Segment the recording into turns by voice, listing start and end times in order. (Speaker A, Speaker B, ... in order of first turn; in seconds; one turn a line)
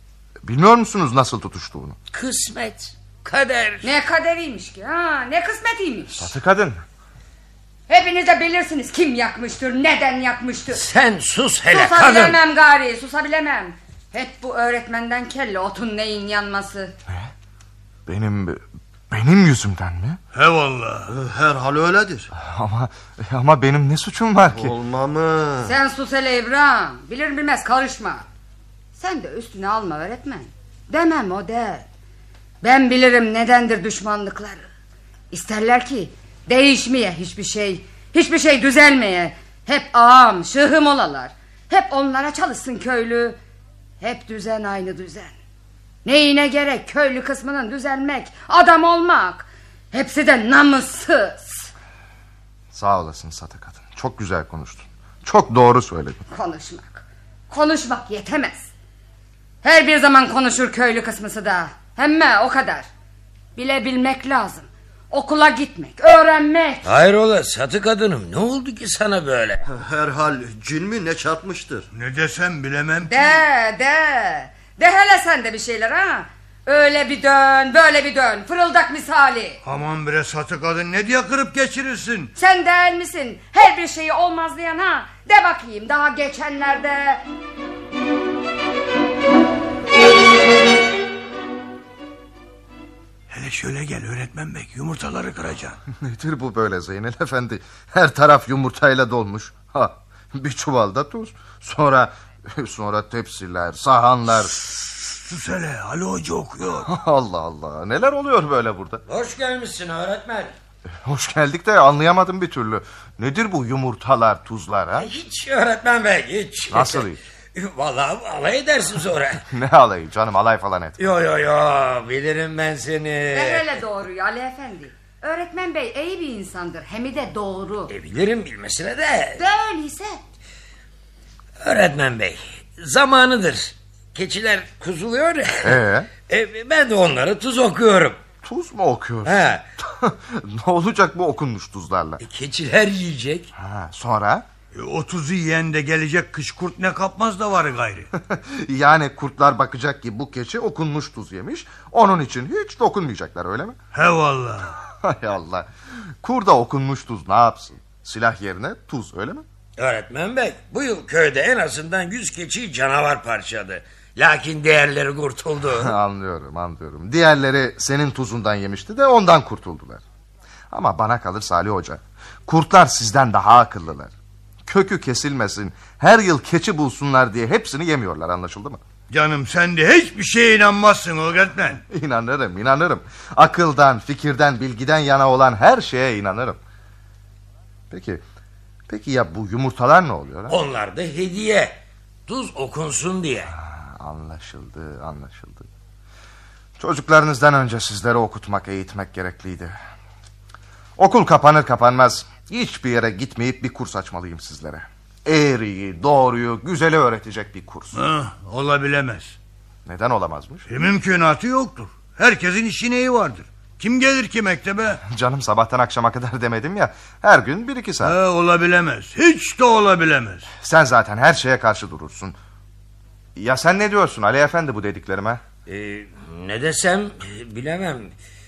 Speaker A: 0.4-2.0
Speaker B: 2.1-3.9
Speaker C: 3.8-6.2
Speaker A: 6.1-6.8
Speaker C: 7.9-10.8
Speaker B: 10.7-12.4
Speaker C: 11.7-16.9
Speaker A: 18.1-20.2
Speaker D: 20.3-21.1
Speaker E: 21.1-22.3
Speaker A: 22.3-24.7
Speaker E: 24.5-25.7
Speaker C: 25.6-28.2
Speaker C: 29.0-31.9
Speaker C: 32.6-34.6
Speaker C: 35.3-43.4
Speaker C: 44.0-45.3
Speaker C: 46.0-51.7
Speaker A: 52.7-56.2
Speaker C: 56.3-58.7
Speaker C: 59.6-62.9
Speaker C: 63.6-66.9
Speaker B: 66.8-69.6
Speaker E: 69.7-71.9
Speaker D: 71.9-73.4
Speaker C: 73.0-79.6
Speaker D: 79.6-82.3
Speaker C: 82.4-87.2
Speaker D: 93.3-95.8
Speaker A: 95.9-104.6
Speaker D: 105.0-106.9
Speaker A: 106.8-109.0
Speaker B: 109.1-110.5
Speaker A: 111.0-115.1
Speaker B: 115.0-119.4
Speaker A: 116.7-117.2
Speaker A: 119.5-121.1
Speaker B: 121.0-123.7
Speaker C: 123.3-127.9
Speaker B: 127.9-129.4
Speaker C: 129.4-130.2
Speaker B: 131.6-138.2
Speaker A: 135.6-136.1
Speaker A: 138.4-142.2
Speaker B: 139.2-139.6
Speaker B: 142.2-143.5
Speaker A: 143.6-144.5
Speaker D: 144.7-148.1
Speaker A: 148.2-153.8
Speaker D: 153.9-154.7
Speaker A: 155.0-155.7
Speaker A: 156.2-159.4
Speaker B: 159.8-165.9
Speaker A: 165.7-170.0
Speaker A: 170.7-174.1
Speaker A: 174.7-178.8
Speaker D: 179.1-181.8
Speaker A: 181.9-186.6
Speaker A: 187.9-188.2
Speaker A: 188.9-190.6
Speaker B: 190.5-193.5
Speaker A: 193.5-195.7
Speaker A: 196.8-199.8
Speaker A: 201.0-208.0
Speaker D: 207.9-209.4
Speaker A: 209.9-210.7
Speaker D: 210.7-215.0
Speaker A: 215.0-218.2
Speaker D: 218.0-220.5
Speaker A: 220.6-222.4
Speaker A: 223.3-225.4
Speaker B: 225.7-228.1